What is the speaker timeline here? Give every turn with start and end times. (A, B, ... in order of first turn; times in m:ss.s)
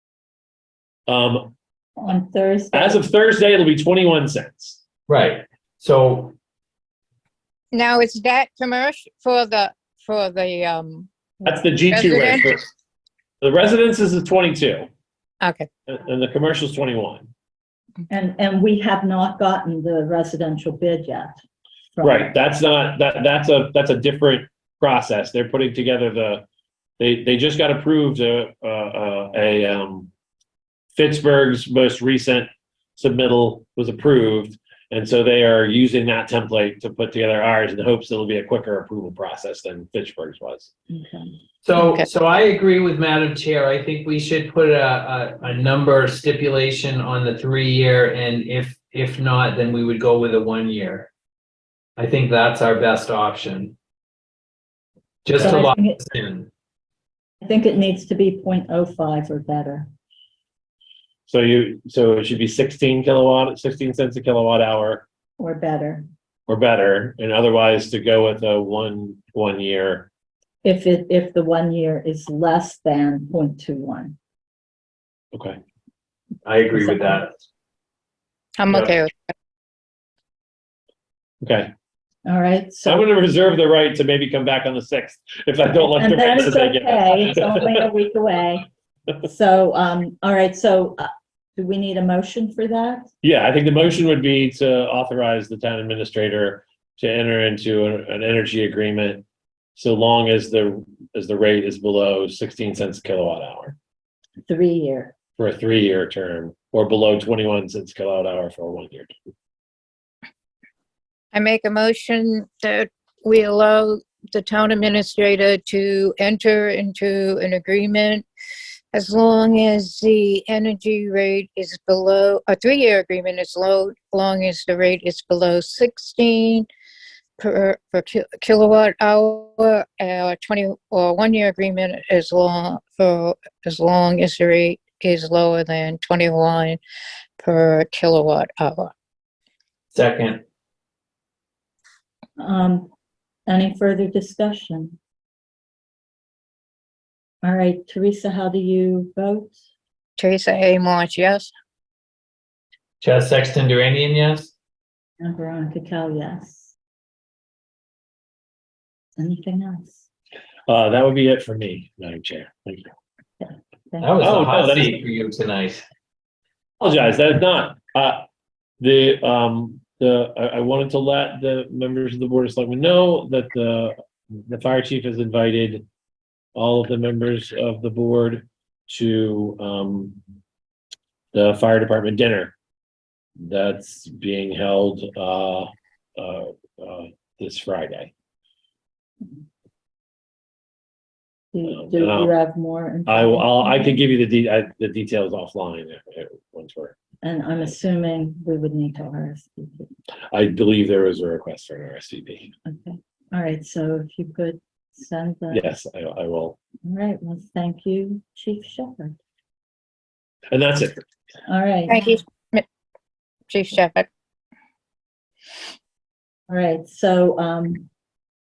0:01.1-0:01.5 A
0:02.0-0:03.0 B
0:02.7-0:04.8 A
0:05.1-0:06.4 C
0:07.7-0:11.1 D
0:11.4-0:12.7 A
0:11.9-0:12.5 D
0:13.4-0:14.9 A
0:15.4-0:15.7 D
0:15.9-0:17.3 A
0:18.1-0:21.3 B
0:22.0-0:22.4 B
0:22.0-0:26.4 A
0:27.0-0:30.1 A
0:31.0-0:40.7 A
0:40.9-0:41.3 B
0:41.6-0:51.1 C
0:41.8-0:42.1 D
0:52.0-0:53.8 C
0:55.2-0:56.5 C
0:55.4-0:56.0 B
0:57.4-0:59.9 B
1:01.3-1:05.0 A
1:05.4-1:06.1 B
1:06.5-1:10.1 A
1:10.6-1:14.2 B
1:15.3-1:15.6 A
1:16.4-1:17.3 C
1:18.6-1:19.1 D
1:18.7-1:19.0 C
1:21.4-1:21.7 A
1:22.3-1:23.0 B
1:22.8-1:27.7 A
1:25.8-1:28.7 B
1:29.2-1:33.1 B
1:33.2-1:39.2 A
1:39.8-1:43.8 A
1:44.5-1:45.1 B
1:45.4-1:49.1 A
1:51.3-1:58.3 D
1:58.9-2:06.7 D
2:07.4-2:16.8 D
2:17.4-2:18.9 D
2:19.9-2:20.4 C
2:22.4-2:22.9 B
2:23.5-2:25.0 B
2:27.4-2:29.6 B
2:30.2-2:31.5 D
2:33.0-2:34.5 C
2:35.2-2:36.7 B
2:39.2-2:40.0 B
2:40.7-2:42.9 A
2:43.4-2:44.2 B
2:44.0-2:45.8 C
2:44.2-2:45.0 A
2:46.8-2:48.2 A
2:48.8-2:55.8 A
2:56.6-3:00.2 A
3:01.3-3:02.6 A
3:03.4-3:08.1 A
3:11.5-3:14.0 B
3:11.7-3:12.3 A
3:13.1-3:17.0 A
3:17.2-3:19.9 B
3:20.3-3:22.5 A
3:22.7-3:25.6 B
3:25.5-3:26.6 A
3:26.8-3:29.2 B
3:30.5-3:31.0 A
3:31.5-3:32.1 B
3:31.9-3:32.6 D
3:33.5-3:34.1 D
3:36.5-3:37.9 B